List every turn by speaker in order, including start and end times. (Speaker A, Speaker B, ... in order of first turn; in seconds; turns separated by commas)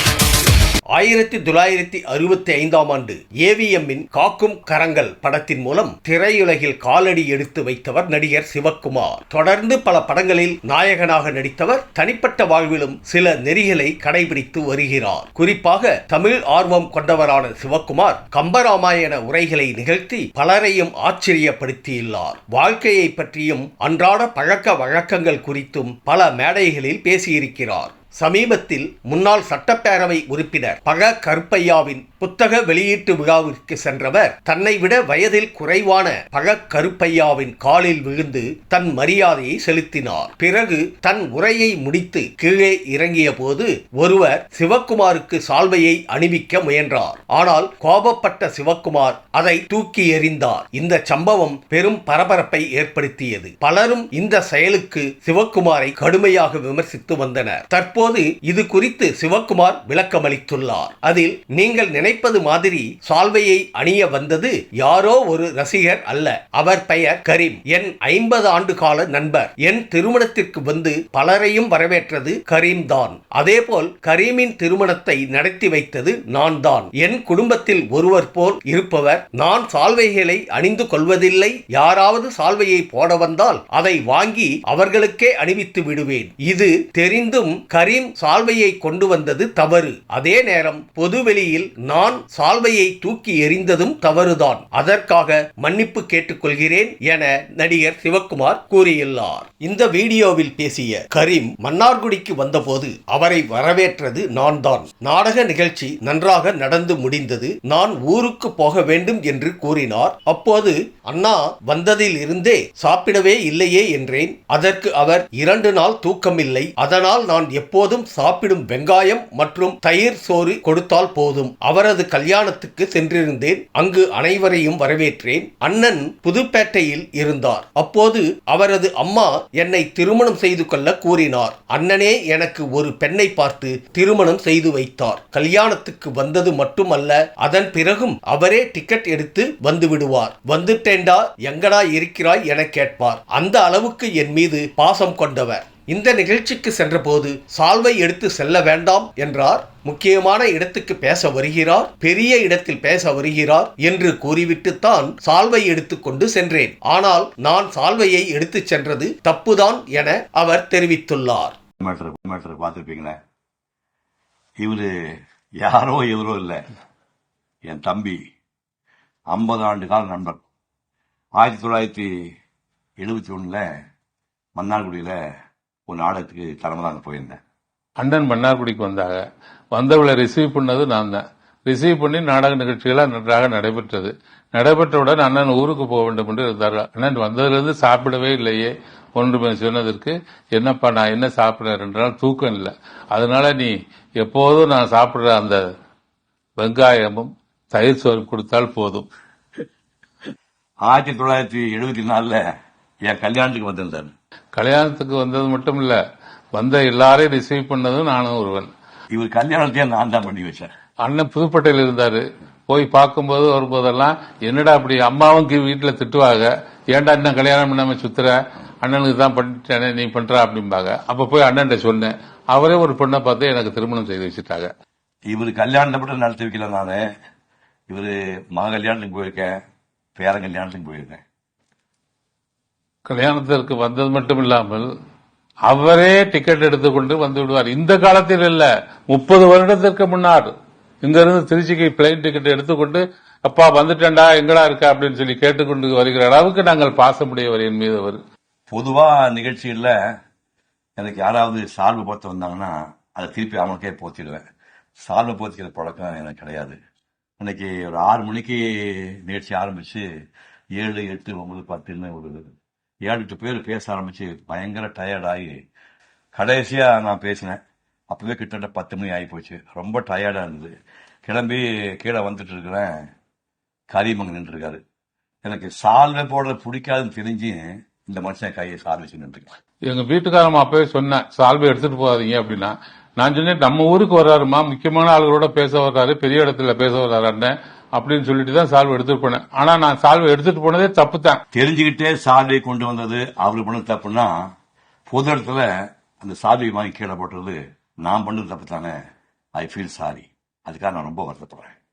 Speaker A: 0.9-161.6, Speaker B: 161.8-163.2, Speaker B: 164.6-164.9, Speaker B: 165.6-166.6, Speaker B: 167.7-168.2, Speaker B: 169.3-170.4, Speaker B: 171.4-172.1, Speaker B: 173.0-173.7, Speaker B: 174.6-175.2, Speaker B: 175.9-177.4, Speaker C: 178.0-179.2, Speaker C: 179.7-195.6, Speaker C: 196.6-199.1, Speaker B: 200.8-202.4, Speaker B: 203.1-204.1, Speaker C: 204.5-206.0, Speaker C: 206.5-208.7, Speaker B: 209.1-210.7, Speaker C: 211.0-224.7, Speaker B: 225.3-227.0, Speaker B: 227.9-229.5, Speaker B: 230.2-231.2, Speaker C: 233.1-234.9, Speaker C: 235.7-240.5, Speaker C: 241.0-248.2, Speaker B: 248.7-249.9, Speaker B: 251.0-254.4, Speaker B: 255.0-256.8, Speaker B: 257.4-260.0, Speaker B: 260.8-262.5, Speaker B: 263.1-265.6, Speaker B: 266.3-267.6, Speaker B: 268.1-270.7, Speaker B: 271.2-272.9, Speaker B: 273.9-274.8, Speaker B: 275.4-279.5, Speaker C: 279.9-291.4, Speaker B: 291.5-294.3, Speaker B: 295.1-295.6, Speaker B: 296.2-298.9, Speaker B: 299.6-301.8